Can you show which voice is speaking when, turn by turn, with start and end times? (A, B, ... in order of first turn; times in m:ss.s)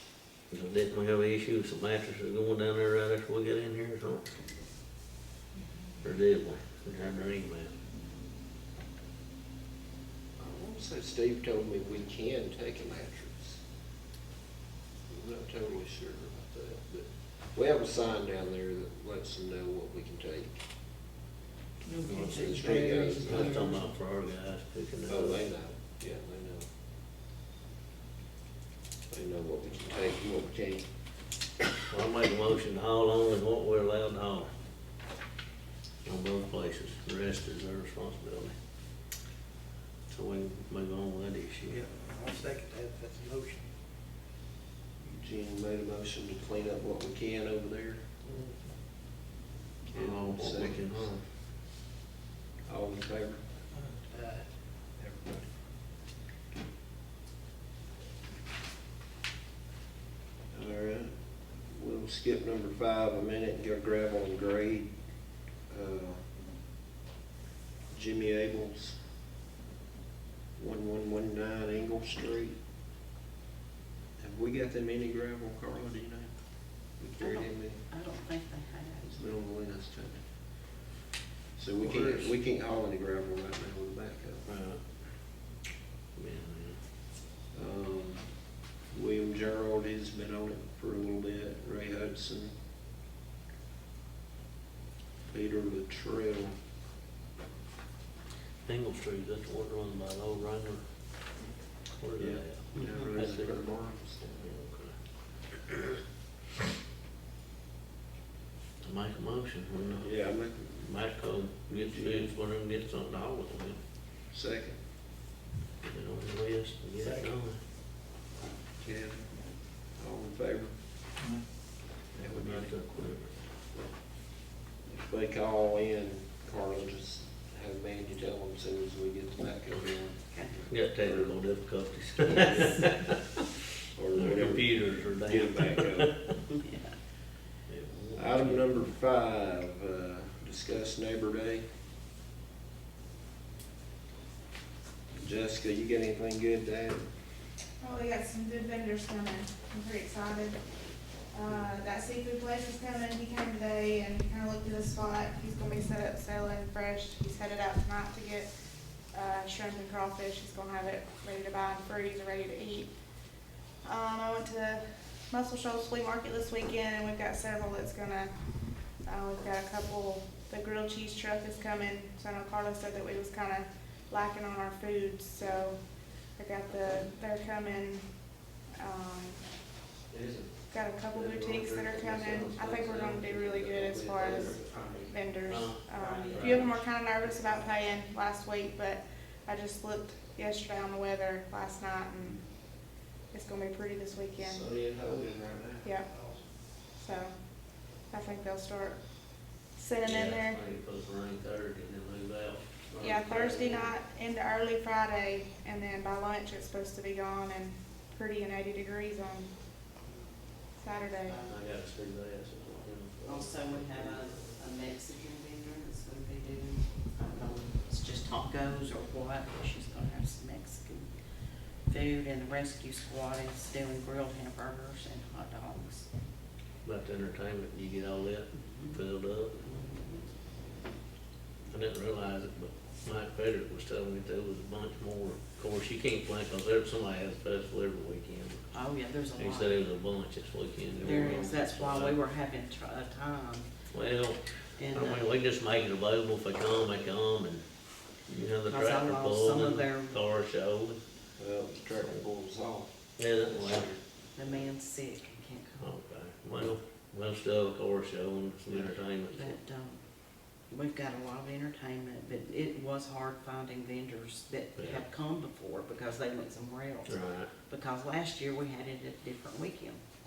0:00.5-0:04.4 A
0:06.0-0:07.7 A
0:10.4-0:13.6 B
0:15.1-0:20.6 B
0:21.8-0:23.9 C
0:22.1-0:22.6 A
0:22.3-0:23.6 B
0:23.2-0:25.4 A
0:25.1-0:26.7 B
0:29.1-0:30.8 B
0:31.9-0:34.5 A
0:36.0-0:38.6 A
0:40.1-0:41.8 A
0:42.0-0:43.6 D
0:45.0-0:48.1 B
0:49.9-0:51.1 B
0:49.9-0:51.2 A
0:52.7-0:53.4 B
0:54.0-0:54.4 D
0:55.0-0:55.4 D
1:00.5-1:01.1 B
1:01.7-1:04.9 B
1:05.7-1:06.2 B
1:07.9-1:09.0 B
1:10.6-1:12.6 B
1:14.2-1:16.3 B
1:17.0-1:17.8 B
1:17.2-1:19.2 E
1:19.1-1:20.2 B
1:21.6-1:24.5 B
1:21.8-1:22.3 A
1:24.5-1:24.8 A
1:26.2-1:26.8 A
1:27.5-1:28.2 B
1:28.9-1:32.5 B
1:35.3-1:36.5 B
1:38.6-1:40.8 A
1:41.9-1:45.0 A
1:42.2-1:44.5 B
1:42.8-1:43.0 E
1:48.8-1:50.1 A
1:50.0-1:50.9 B
1:50.8-1:53.8 A
1:51.7-1:52.3 B
1:54.3-1:54.8 B
1:55.8-1:57.6 A
1:58.8-1:59.3 B
1:59.9-2:00.7 B
2:02.2-2:03.3 A
2:02.2-2:02.8 B
2:04.9-2:11.4 B
2:10.7-2:13.3 A
2:12.3-2:13.0 B
2:13.9-2:16.1 B
2:14.2-2:16.4 A
2:16.5-2:16.9 E
2:17.7-2:18.9 A
2:18.2-2:21.6 B
2:25.1-2:27.0 B
2:27.8-2:30.6 F
2:31.3-2:38.5 F
2:39.1-2:42.9 F
2:43.8-2:48.3 F
2:49.0-2:55.8 F
2:56.4-2:58.1 F
2:58.8-2:59.4 F
3:00.1-3:06.8 A
3:00.7-3:12.4 F
3:06.0-3:07.7 E
3:13.3-3:14.7 F
3:14.4-3:16.3 B
3:15.8-3:16.1 F
3:16.9-3:17.3 F
3:18.1-3:19.0 F
3:19.8-3:20.6 F
3:20.0-3:23.9 A
3:23.0-3:29.5 F
3:30.8-3:31.4 F
3:31.2-3:31.6 E
3:31.5-3:34.6 A
3:33.2-3:41.1 E
3:41.9-3:46.1 E
3:46.8-3:49.6 A
3:48.5-3:49.0 E
3:49.5-3:50.2 E
3:51.7-3:58.6 A
3:58.7-3:59.9 E
3:59.4-4:02.2 A
4:01.0-4:03.7 E
4:03.9-4:07.6 A
4:04.8-4:05.3 E
4:08.3-4:11.0 A
4:08.6-4:10.2 E
4:11.4-4:12.9 B
4:13.2-4:13.9 A
4:13.6-4:14.0 B
4:14.4-4:15.9 E
4:15.8-4:19.6 A
4:19.3-4:20.0 E
4:20.7-4:30.0 E
4:24.8-4:25.0 A
4:27.1-4:27.5 A